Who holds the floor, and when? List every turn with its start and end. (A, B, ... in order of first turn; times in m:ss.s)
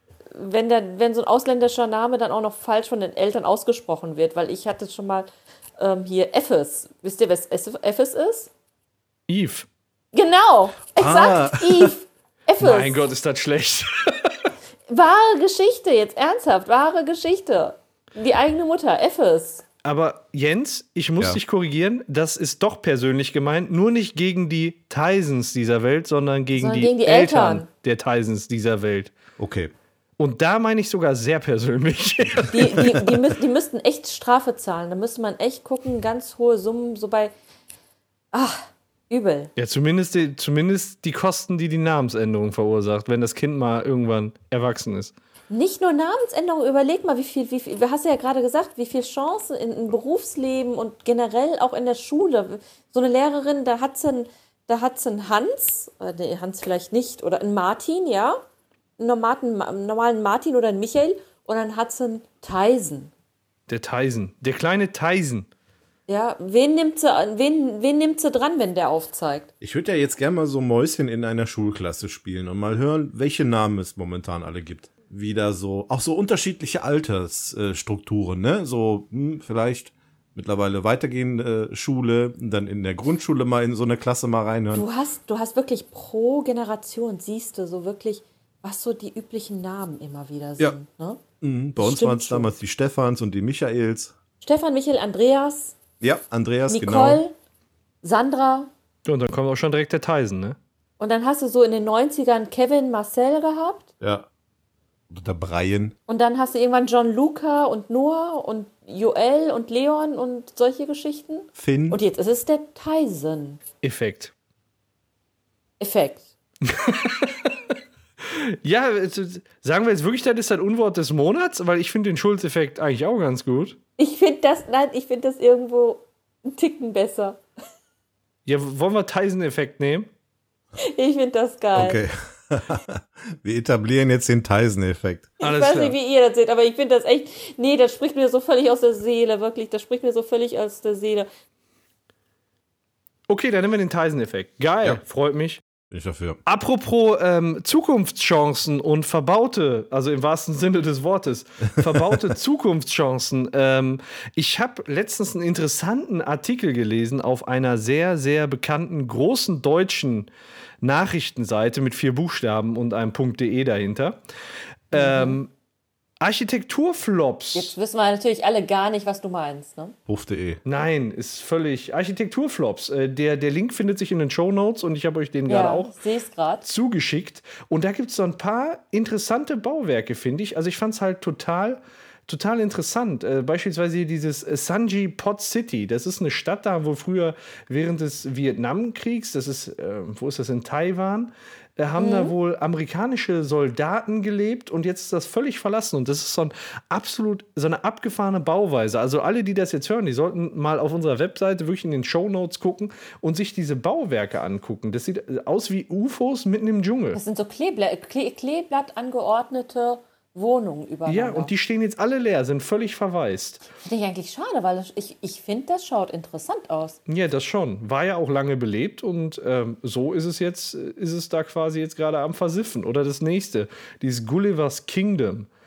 0:00.3-0:08.5 A
0:09.3-0:09.7 B
0:10.1-0:13.0 A
0:11.0-0:11.9 C
0:12.6-0:14.5 B
0:14.9-0:19.6 A
0:19.8-0:29.1 B
0:26.6-0:27.7 A
0:29.4-0:29.7 C
0:30.2-0:33.0 B
0:32.5-0:37.3 A
0:38.3-0:39.5 A
0:39.6-0:45.1 B
0:45.5-0:58.4 A
0:59.0-1:03.1 A
1:03.7-1:05.5 B
1:06.1-1:09.5 A
1:09.6-1:24.8 C
1:24.7-1:31.2 A
1:31.4-1:34.1 C
1:31.8-1:32.6 A
1:34.4-1:35.8 A
1:36.0-1:37.2 C
1:36.7-1:37.3 A
1:38.0-1:38.7 A
1:39.0-1:40.6 B
1:41.0-1:43.9 A
1:44.0-1:44.3 C
1:45.1-1:45.9 C
1:46.1-1:53.6 A
1:51.6-1:52.0 C
1:53.8-1:54.3 B
1:55.8-1:56.2 A
1:56.6-1:57.6 B
1:58.2-2:03.8 B
2:04.0-2:07.4 A
2:08.4-2:10.1 B
2:10.8-2:12.0 A
2:11.7-2:15.3 C
2:15.4-2:16.0 B
2:15.4-2:21.3 A
2:23.3-2:25.6 B
2:25.9-2:26.4 C
2:26.4-2:40.3 B
2:40.8-2:44.2 B
2:44.9-2:45.5 B
2:44.9-2:45.4 A
2:46.2-2:47.7 B
2:47.5-2:49.9 A
2:50.1-2:50.6 C
2:50.6-2:55.9 B
2:55.4-2:56.6 A
2:56.6-3:27.2 B
3:12.0-3:12.3 A
3:27.1-3:31.5 A
3:31.1-3:33.6 B
3:33.8-3:37.0 A
3:37.1-3:45.5 B